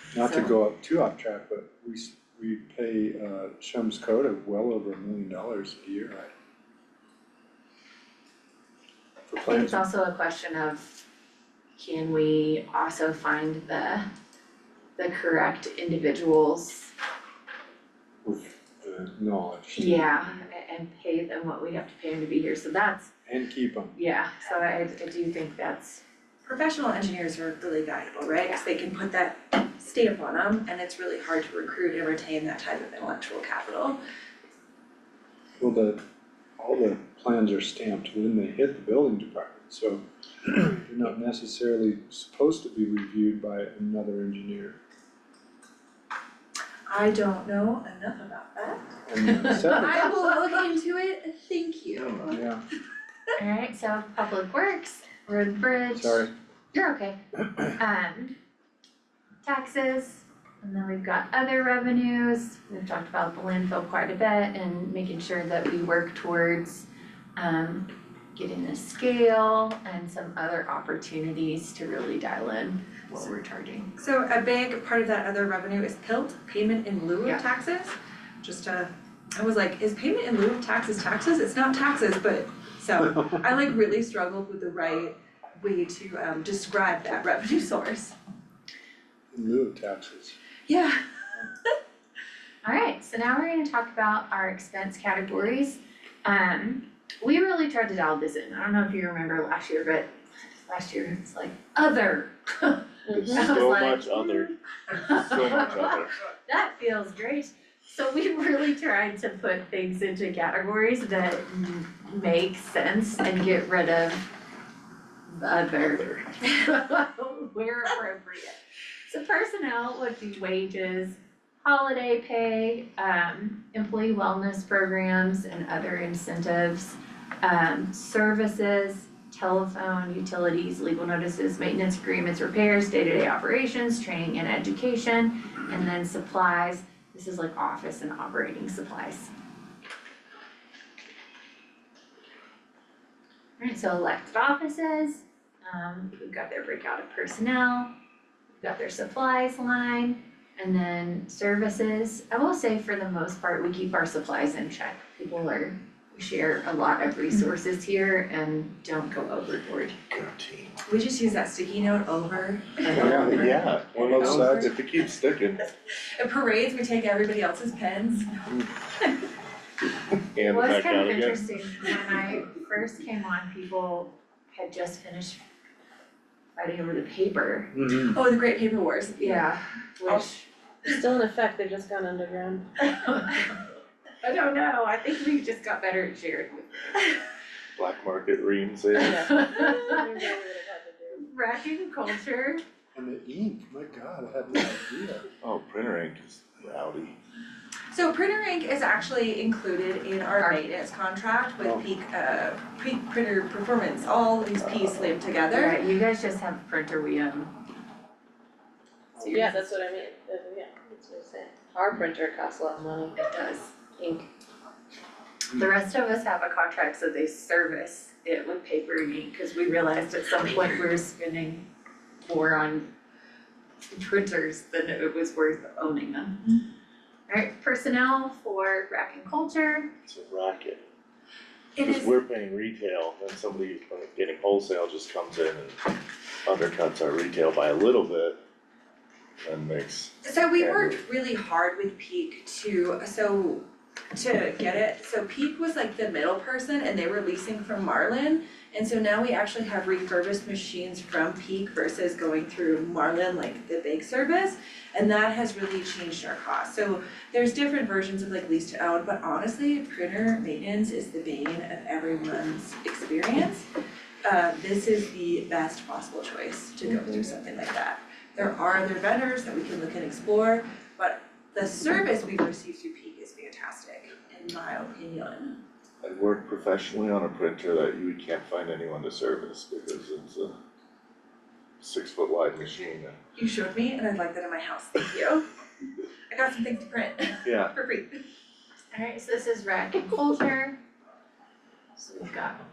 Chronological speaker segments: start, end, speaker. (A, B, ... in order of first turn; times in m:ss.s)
0:00.1-0:06.3 A
0:00.2-0:00.6 B
0:09.3-0:09.8 A
0:09.4-0:11.1 B
0:11.8-0:14.1 B
0:15.0-0:16.9 B
0:18.2-0:20.1 A
0:19.7-0:23.1 B
0:23.3-0:24.0 A
0:24.0-0:26.0 B
0:26.5-0:34.0 C
0:35.6-0:36.0 A
0:36.6-0:44.8 A
0:46.9-0:48.9 C
0:49.1-0:50.1 A
0:49.4-0:49.9 B
0:49.5-0:52.4 C
0:52.3-0:52.6 A
0:53.4-0:58.4 B
0:55.9-0:56.3 A
0:59.4-1:13.9 B
1:14.0-1:28.2 C
1:29.3-1:30.4 A
1:30.7-1:31.0 C
1:32.6-1:40.1 B
1:40.6-1:54.3 B
1:43.1-1:43.5 D
1:43.1-1:46.2 E
1:55.3-2:19.3 B
2:23.6-2:27.9 B
2:28.5-2:40.0 B
2:40.1-2:40.8 E
2:40.9-2:44.7 C
2:42.9-2:44.7 A
2:43.0-2:45.7 E
2:45.9-2:48.5 C
2:50.3-2:51.5 E
2:50.4-2:55.4 B
2:56.6-2:57.8 B
2:57.7-2:58.2 A
2:57.9-2:59.5 C
2:59.2-3:00.5 B
3:00.8-3:02.7 D
3:02.9-3:03.4 B
3:04.2-3:06.9 B
3:07.8-3:09.2 E
3:09.1-3:11.3 D
3:09.1-3:10.3 B
3:11.2-3:12.6 B
3:12.9-3:15.3 A
3:15.4-3:17.2 E
3:17.9-3:25.8 C
3:20.4-3:20.7 B
3:25.5-3:27.5 B
3:29.2-3:29.5 A
3:29.2-3:29.7 B
3:29.2-3:33.2 D
3:33.2-3:33.8 B
3:33.9-3:34.3 D
3:35.5-3:41.6 B
3:42.2-3:42.9 B
3:43.9-3:46.5 B
3:47.3-3:49.9 B
3:50.0-3:50.8 E
3:51.8-3:52.1 C
3:51.8-3:55.9 E
3:56.5-3:58.4 E
3:59.4-4:01.0 E
4:00.2-4:23.7 C
4:24.2-4:35.6 C
4:36.0-4:40.6 E
4:41.8-4:43.2 E
4:43.4-4:45.4 C
4:46.3-4:48.2 C
4:47.4-4:47.7 E
4:48.9-4:50.8 B
4:52.0-4:52.6 B